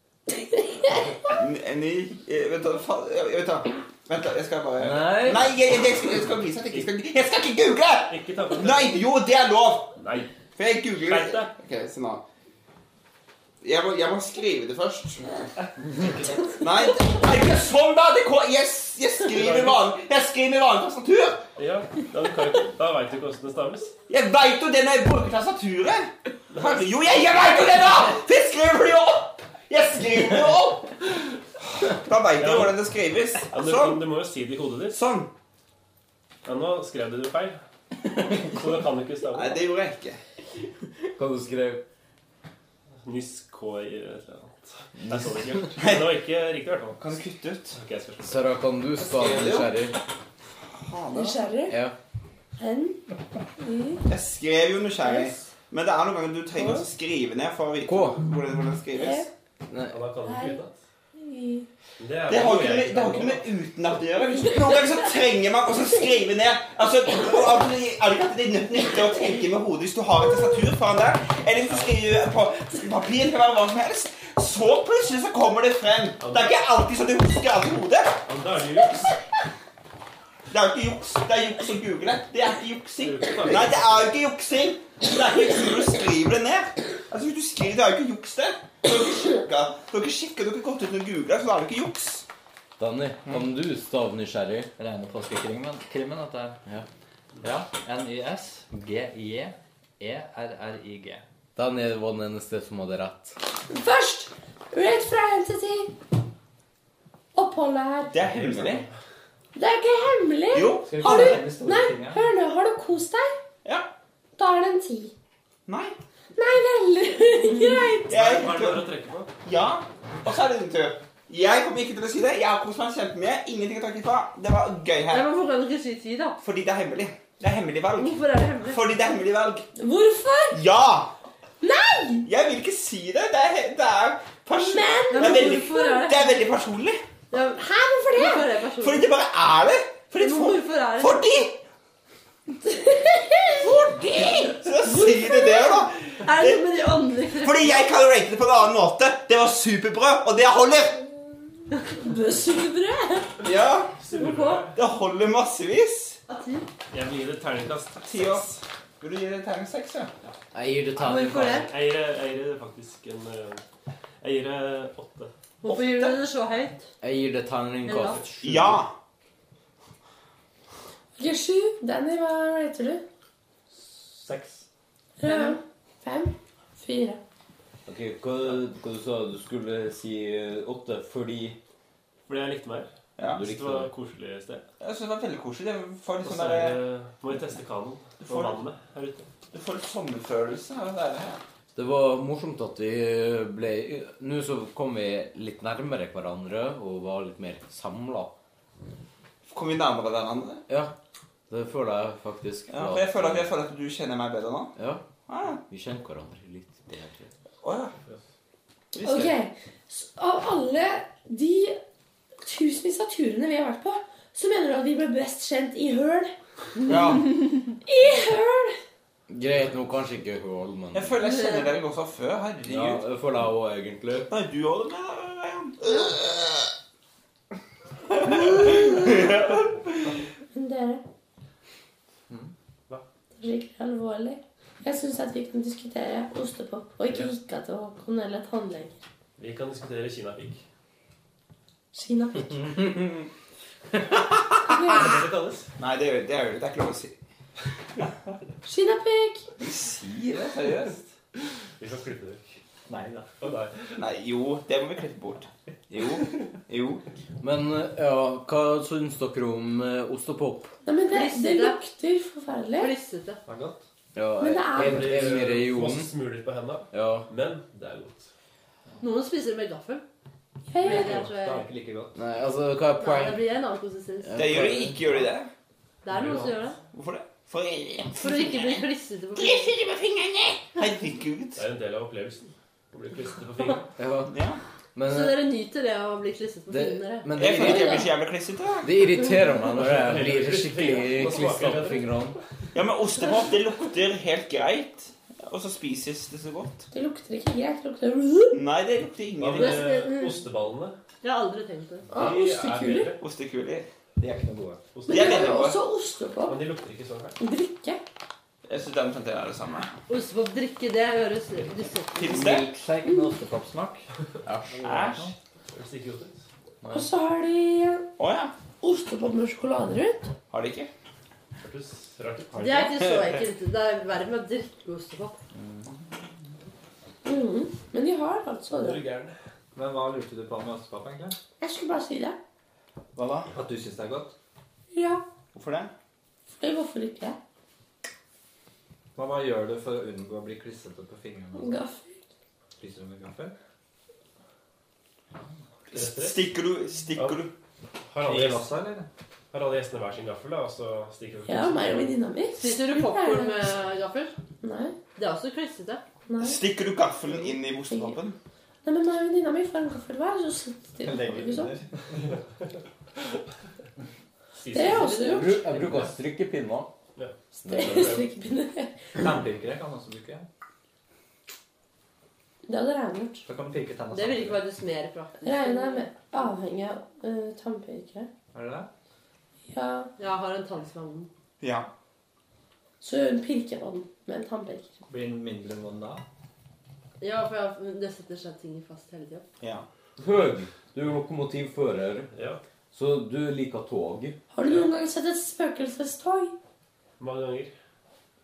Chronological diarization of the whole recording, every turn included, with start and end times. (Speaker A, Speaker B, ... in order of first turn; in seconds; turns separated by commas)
Speaker A: 1.2-9.9, Speaker B: 4.8-5.5, Speaker C: 8.1-9.0, Speaker C: 10.0-10.3, Speaker A: 10.6-12.2, Speaker C: 11.0-11.5, Speaker A: 13.6-15.3, Speaker C: 16.0-16.3, Speaker A: 16.5-21.5, Speaker C: 19.3-19.8, Speaker C: 21.6-23.9, Speaker A: 24.1-31.1, Speaker C: 26.5-26.8, Speaker A: 31.7-34.0, Speaker C: 32.4-32.8, Speaker C: 33.5-35.0, Speaker A: 34.9-35.3, Speaker C: 36.4-37.6, Speaker C: 38.2-39.6, Speaker A: 39.3-40.2, Speaker B: 40.8-41.9, Speaker C: 43.0-47.1, Speaker B: 45.0-45.6, Speaker A: 45.8-46.2, Speaker A: 47.0-47.8, Speaker C: 47.8-48.4, Speaker B: 48.2-50.0, Speaker A: 49.0-49.7, Speaker A: 50.7-51.5, Speaker D: 51.1-51.8, Speaker B: 51.7-52.0, Speaker D: 52.6-53.0, Speaker D: 53.6-54.1, Speaker A: 54.1-59.3, Speaker D: 55.1-55.3, Speaker D: 56.6-56.8, Speaker B: 57.9-58.2, Speaker D: 59.0-59.3, Speaker B: 59.7-60.0, Speaker C: 59.9-60.8, Speaker D: 60.2-60.6, Speaker D: 61.1-61.7, Speaker C: 62.0-63.5, Speaker A: 62.3-78.2, Speaker C: 76.2-76.5, Speaker C: 78.3-79.1, Speaker A: 80.5-92.3, Speaker C: 83.0-84.1, Speaker B: 92.8-94.7, Speaker E: 94.8-96.6, Speaker E: 97.4-101.2, Speaker B: 101.6-103.4, Speaker D: 103.7-105.9, Speaker D: 107.3-108.2, Speaker A: 108.1-108.8, Speaker C: 108.2-108.9, Speaker D: 109.5-113.3, Speaker A: 110.5-111.5, Speaker E: 110.9-112.3, Speaker A: 113.7-113.9, Speaker D: 114.4-115.1, Speaker A: 115.7-116.0, Speaker D: 116.3-118.2, Speaker F: 117.6-118.0, Speaker A: 118.1-118.9, Speaker C: 118.1-119.3, Speaker A: 119.4-125.3, Speaker F: 125.1-126.4, Speaker A: 126.4-129.7, Speaker F: 128.0-128.8, Speaker D: 129.8-130.6, Speaker A: 130.5-131.2, Speaker D: 131.6-132.3, Speaker A: 132.3-137.0, Speaker D: 134.5-136.1, Speaker F: 135.1-136.3, Speaker F: 137.3-139.1, Speaker D: 137.5-138.5, Speaker A: 138.8-141.6, Speaker F: 140.2-141.3, Speaker D: 142.7-143.7, Speaker A: 143.6-146.7, Speaker D: 144.9-145.7, Speaker F: 146.2-147.9, Speaker A: 147.4-151.1, Speaker D: 151.9-153.4, Speaker A: 153.4-154.0, Speaker C: 154.0-154.8, Speaker F: 154.2-154.7, Speaker A: 154.8-156.2, Speaker F: 156.3-156.7, Speaker C: 156.9-158.5, Speaker A: 158.0-160.1, Speaker B: 160.5-161.7, Speaker F: 161.0-161.7, Speaker C: 161.6-163.6, Speaker C: 164.2-165.3, Speaker F: 165.6-166.9, Speaker A: 165.7-166.2, Speaker B: 167.0-168.8, Speaker F: 167.8-168.2, Speaker A: 168.4-168.9, Speaker D: 171.2-173.0, Speaker E: 173.7-174.7, Speaker D: 175.2-177.2, Speaker F: 175.2-175.6, Speaker B: 177.9-181.6, Speaker C: 182.3-184.7, Speaker A: 183.2-183.4, Speaker B: 183.2-183.9, Speaker A: 184.8-186.8, Speaker C: 186.2-189.3, Speaker A: 188.2-188.6, Speaker A: 189.5-191.4, Speaker B: 191.8-198.3, Speaker A: 199.4-200.6, Speaker B: 200.7-200.9, Speaker B: 201.5-203.5, Speaker A: 202.7-204.7, Speaker B: 204.8-207.3, Speaker A: 205.3-205.6, Speaker A: 207.6-207.9, Speaker A: 208.9-209.3, Speaker D: 209.0-211.8, Speaker D: 212.4-216.3, Speaker A: 216.9-217.3, Speaker D: 217.8-218.8, Speaker B: 219.3-221.2, Speaker A: 220.9-223.1, Speaker F: 221.2-221.7, Speaker B: 222.6-224.3, Speaker A: 224.3-226.7, Speaker A: 228.1-230.1, Speaker D: 230.5-231.0, Speaker D: 233.3-239.0, Speaker C: 239.4-240.7, Speaker D: 241.9-242.7, Speaker A: 244.2-245.1, Speaker D: 244.7-245.0, Speaker E: 245.0-245.6, Speaker C: 245.0-245.7, Speaker A: 245.8-247.2, Speaker D: 248.6-249.5, Speaker A: 249.6-251.1, Speaker C: 251.8-252.6, Speaker E: 252.9-253.4, Speaker C: 253.4-253.9, Speaker A: 254.0-257.1, Speaker B: 257.4-260.7, Speaker D: 260.9-262.9, Speaker F: 261.1-261.8, Speaker F: 262.8-263.4, Speaker E: 263.5-263.8, Speaker B: 264.1-266.1, Speaker D: 264.4-265.2, Speaker C: 264.7-268.3, Speaker B: 266.9-267.3, Speaker F: 269.0-270.0, Speaker D: 270.7-271.2, Speaker F: 270.8-271.7, Speaker E: 270.8-272.2, Speaker B: 272.1-273.4, Speaker F: 273.0-274.6, Speaker B: 274.2-275.0, Speaker A: 274.4-275.5, Speaker F: 276.1-276.8, Speaker C: 276.1-276.7, Speaker A: 276.9-281.6, Speaker F: 278.2-279.7, Speaker C: 281.6-283.9, Speaker B: 284.0-284.4, Speaker A: 284.3-284.6, Speaker B: 284.9-285.4, Speaker F: 285.1-287.3, Speaker B: 286.7-288.1, Speaker A: 287.4-289.0, Speaker D: 287.5-288.1, Speaker B: 288.8-292.4, Speaker C: 289.7-292.2, Speaker A: 292.7-296.9, Speaker D: 296.9-298.6, Speaker A: 298.5-299.9, Speaker C: 299.4-301.0, Speaker F: 299.6-300.4, Speaker F: 301.2-302.1, Speaker D: 302.1-303.1, Speaker C: 302.1-303.2, Speaker A: 303.2-303.9, Speaker E: 304.2-304.8, Speaker C: 304.9-305.5, Speaker D: 305.1-306.6, Speaker A: 305.1-305.8, Speaker C: 306.5-307.4, Speaker D: 307.4-308.0, Speaker A: 308.7-309.9, Speaker F: 310.1-312.4, Speaker A: 312.2-312.7, Speaker E: 312.3-314.1, Speaker D: 313.0-313.4, Speaker B: 314.5-315.0, Speaker E: 314.8-315.3, Speaker A: 314.8-315.3, Speaker C: 315.7-316.5, Speaker B: 316.8-317.1, Speaker D: 316.9-318.1, Speaker A: 318.2-318.5, Speaker D: 318.8-320.3, Speaker A: 320.5-320.9, Speaker C: 321.6-322.9, Speaker F: 322.6-325.4, Speaker D: 327.2-329.0, Speaker C: 328.7-329.4, Speaker E: 329.8-331.4, Speaker D: 331.6-332.4, Speaker A: 333.1-333.5, Speaker E: 333.5-334.4, Speaker D: 334.9-335.2, Speaker A: 335.5-335.9, Speaker D: 336.5-337.4, Speaker E: 339.1-341.8, Speaker D: 341.6-342.2, Speaker E: 342.8-343.5, Speaker C: 345.9-346.4, Speaker A: 345.9-347.5, Speaker C: 348.1-348.8, Speaker E: 348.2-349.1, Speaker C: 349.5-352.2, Speaker D: 351.5-353.7, Speaker F: 352.6-354.3, Speaker D: 354.6-354.9, Speaker F: 355.1-356.0, Speaker D: 356.3-356.6, Speaker A: 356.4-358.4, Speaker D: 357.9-358.2, Speaker D: 358.8-361.8, Speaker E: 361.0-362.3, Speaker C: 364.6-365.1, Speaker D: 364.7-365.6, Speaker F: 364.8-365.8, Speaker B: 365.2-366.9, Speaker C: 367.2-368.2, Speaker B: 367.6-368.2, Speaker D: 367.7-369.2, Speaker E: 369.2-370.5, Speaker D: 372.7-373.4, Speaker E: 373.5-374.6, Speaker F: 374.1-376.1, Speaker D: 375.4-378.3, Speaker E: 378.5-378.9, Speaker D: 379.7-380.1, Speaker F: 380.2-381.3, Speaker A: 381.6-381.9, Speaker D: 383.0-384.9, Speaker E: 385.1-386.2, Speaker F: 387.2-389.4, Speaker A: 389.6-389.9, Speaker B: 390.2-392.3, Speaker C: 392.3-392.6, Speaker B: 392.9-394.4, Speaker D: 394.5-396.5, Speaker C: 397.2-397.7